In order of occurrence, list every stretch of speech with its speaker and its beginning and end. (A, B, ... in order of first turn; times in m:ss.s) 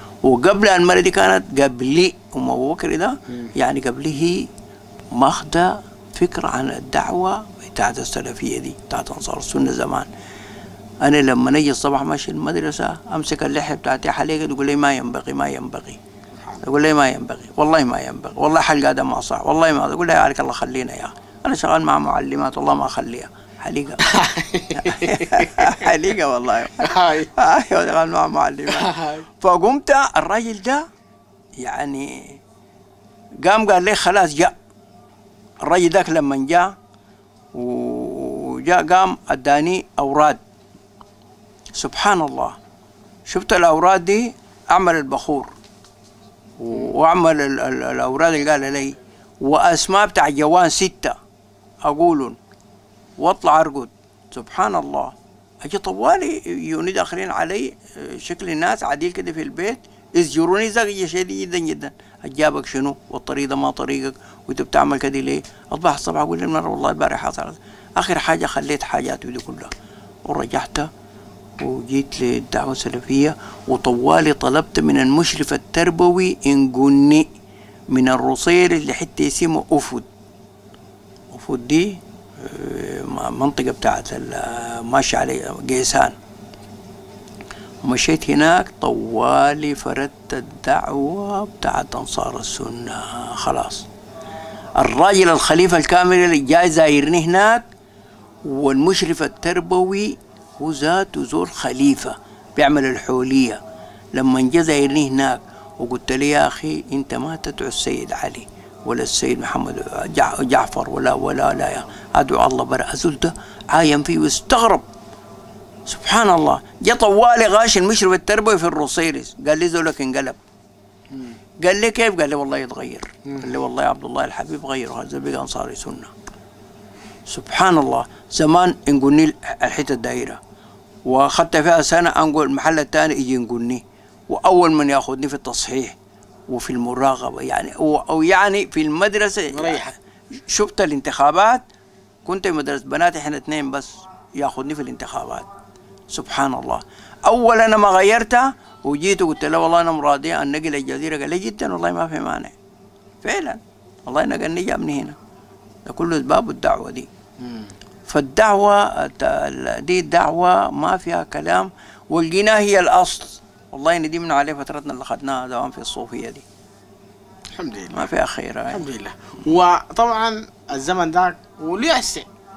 0:00.2-0:04.5 A
0:05.1-0:10.1 A
0:11.0-0:16.0 A
0:16.6-0:24.0 A
0:24.0-0:25.9 B
0:24.8-0:30.9 A
0:26.8-0:27.3 B
0:28.7-0:29.3 B
0:31.6-0:32.4 A
0:33.4-0:34.6 A
0:35.6-0:36.7 A
0:37.5-0:40.4 A
0:41.8-0:42.6 A
0:43.3-0:45.5 A
0:46.6-0:51.2 A
0:51.8-0:52.4 A
0:53.2-1:09.7 A
1:10.2-1:10.9 A
1:11.6-1:17.3 A
1:17.9-1:20.1 A
1:21.3-1:26.2 A
1:27.8-1:33.9 A
1:34.8-1:37.7 A
1:38.4-1:43.6 A
1:44.1-1:54.9 A
1:55.9-2:00.4 A
2:01.1-2:01.4 B
2:01.6-2:06.1 A
2:03.2-2:03.5 B
2:07.3-2:10.4 A
2:11.1-2:16.0 A
2:16.5-2:21.6 A
2:19.5-2:19.9 B
2:22.2-2:25.5 A
2:26.1-2:32.5 A
2:33.2-2:35.2 A
2:35.9-2:37.1 A
2:37.4-2:37.7 B
2:38.1-2:46.4 A
2:47.6-2:48.1 B
2:47.9-2:48.9 A
2:48.7-2:52.3 B